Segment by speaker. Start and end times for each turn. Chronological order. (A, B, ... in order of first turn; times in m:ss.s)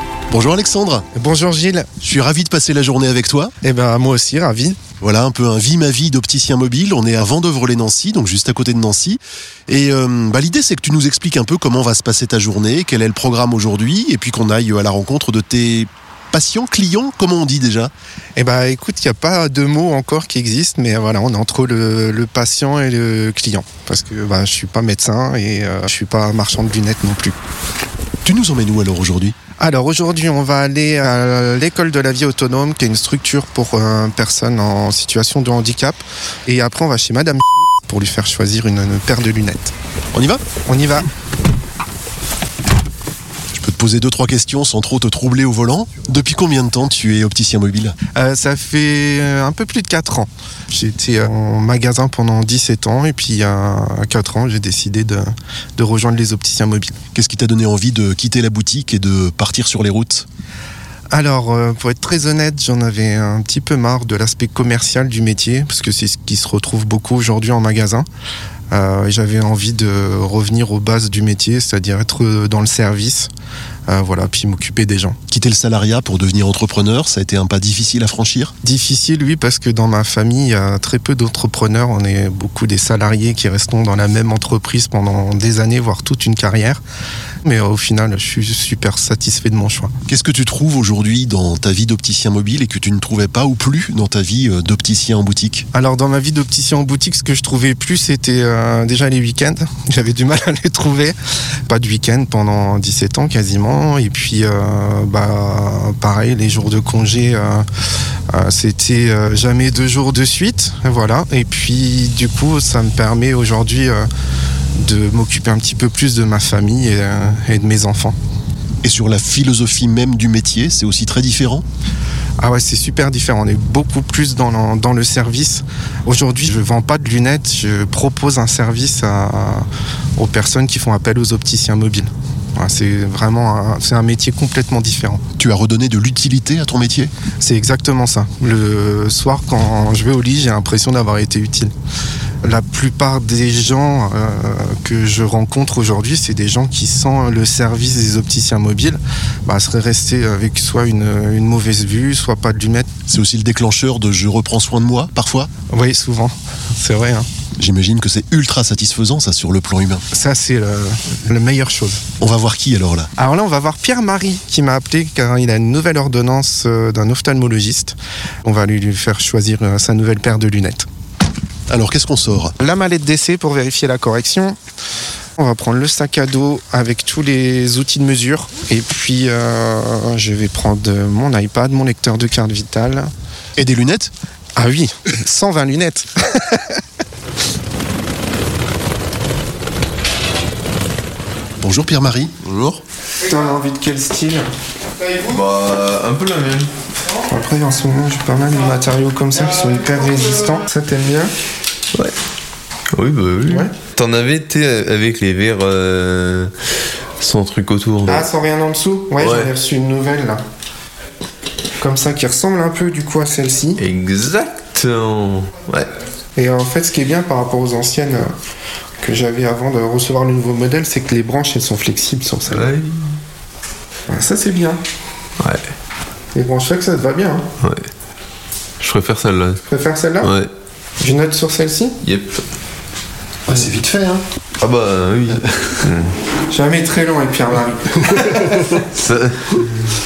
0:00.3-0:01.1 A
0:01.1-0:01.9 B
0:02.0-0:03.5 A
0:03.6-0:04.8 B
0:05.0-0:17.9 A
0:18.4-0:27.4 B
0:28.2-0:29.4 A
0:29.6-0:39.7 B
0:40.1-0:40.4 A
0:40.6-0:41.1 B
0:43.5-0:48.0 A
0:48.2-0:57.0 B
0:57.2-1:00.3 A
1:01.1-1:08.1 B
1:08.7-1:13.3 B
1:13.9-1:15.2 B
1:15.3-1:18.5 A
1:18.6-1:26.8 B
1:27.4-1:29.9 B
1:30.1-1:35.6 A
1:35.7-1:41.2 B
1:41.7-1:47.6 B
1:48.3-1:54.1 B
1:54.8-1:58.2 B
1:58.8-2:01.6 A
2:02.4-2:09.7 B
2:10.2-2:15.2 B
2:15.4-2:17.1 A
2:17.4-2:21.7 B
2:22.4-2:32.9 B
2:33.1-2:35.5 A
2:35.7-2:37.3 B
2:37.6-2:40.0 A
2:40.1-2:42.0 B
2:42.2-2:43.1 A
2:43.2-2:50.9 B
2:51.7-2:52.6 A
2:52.6-2:54.6 B
2:55.4-3:03.1 B
3:03.6-3:04.1 A
3:04.6-3:06.6 B
3:11.6-3:12.8 A
3:13.2-3:14.5 B
3:15.3-3:16.7 C
3:17.3-3:21.3 B
3:23.0-3:26.5 C
3:27.2-3:28.3 C
3:28.1-3:30.4 B
3:29.2-3:29.5 C
3:31.8-3:33.8 B
3:33.8-3:35.9 C
3:36.4-3:38.3 B
3:39.0-3:42.7 B
3:42.5-3:43.0 C
3:44.1-3:44.8 B
3:46.3-3:47.4 B
3:48.8-3:49.6 C
3:49.6-3:50.3 B
3:50.2-3:50.5 C
3:51.0-3:52.0 B
3:52.0-3:52.4 C
3:53.5-3:54.2 A
3:54.6-3:56.1 C
3:56.5-3:58.8 B
3:58.9-3:59.7 C